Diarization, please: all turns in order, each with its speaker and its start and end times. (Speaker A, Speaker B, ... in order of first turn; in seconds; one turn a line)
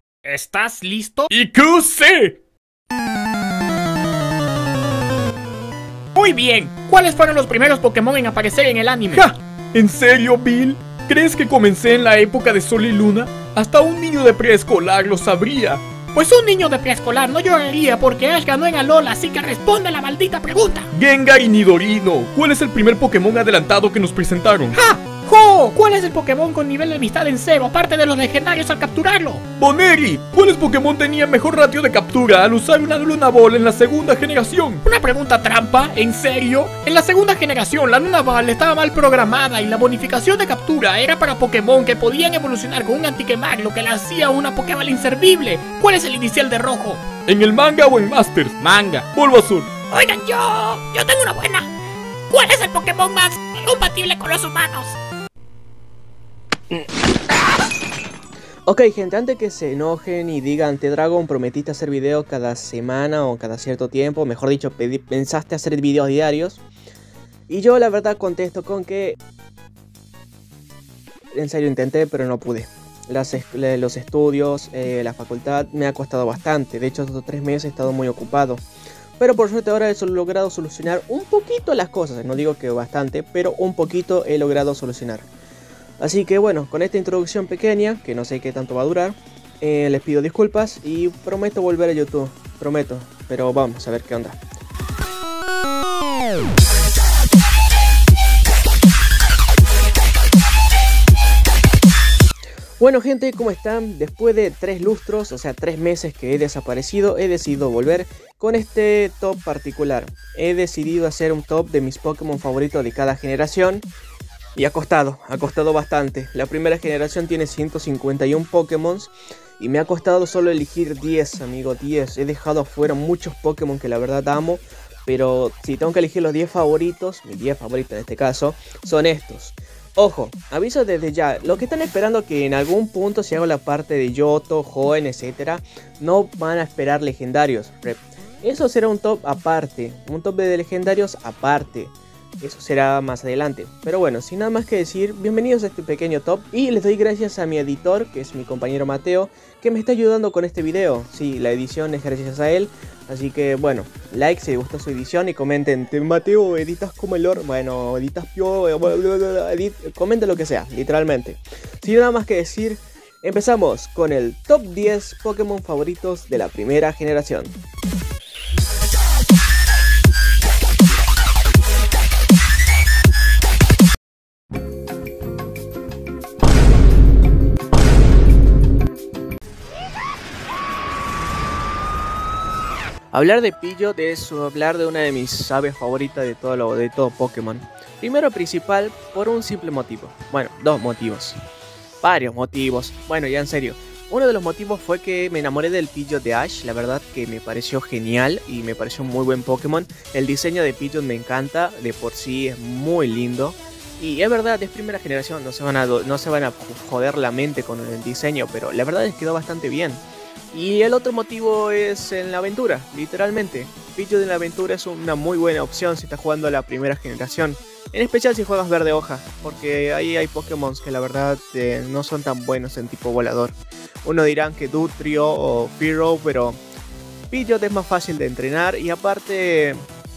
Speaker A: 0.2-1.3
Speaker B: 1.3-2.4
Speaker A: 6.2-9.3
Speaker B: 9.1-15.8
Speaker A: 16.1-20.9
Speaker B: 20.9-24.8
Speaker A: 24.8-29.4
Speaker B: 29.6-34.8
Speaker A: 34.9-47.0
Speaker B: 47.3-49.7
Speaker A: 49.9-51.7
Speaker A: 52.3-55.0
Speaker C: 58.7-66.6
Speaker C: 67.5-69.2
Speaker C: 71.3-78.6
Speaker C: 79.2-85.3
Speaker C: 86.0-94.4
Speaker C: 102.8-113.9
Speaker C: 114.6-167.5
Speaker C: 183.1-191.4
Speaker C: 192.0-226.6
Speaker C: 227.3-229.8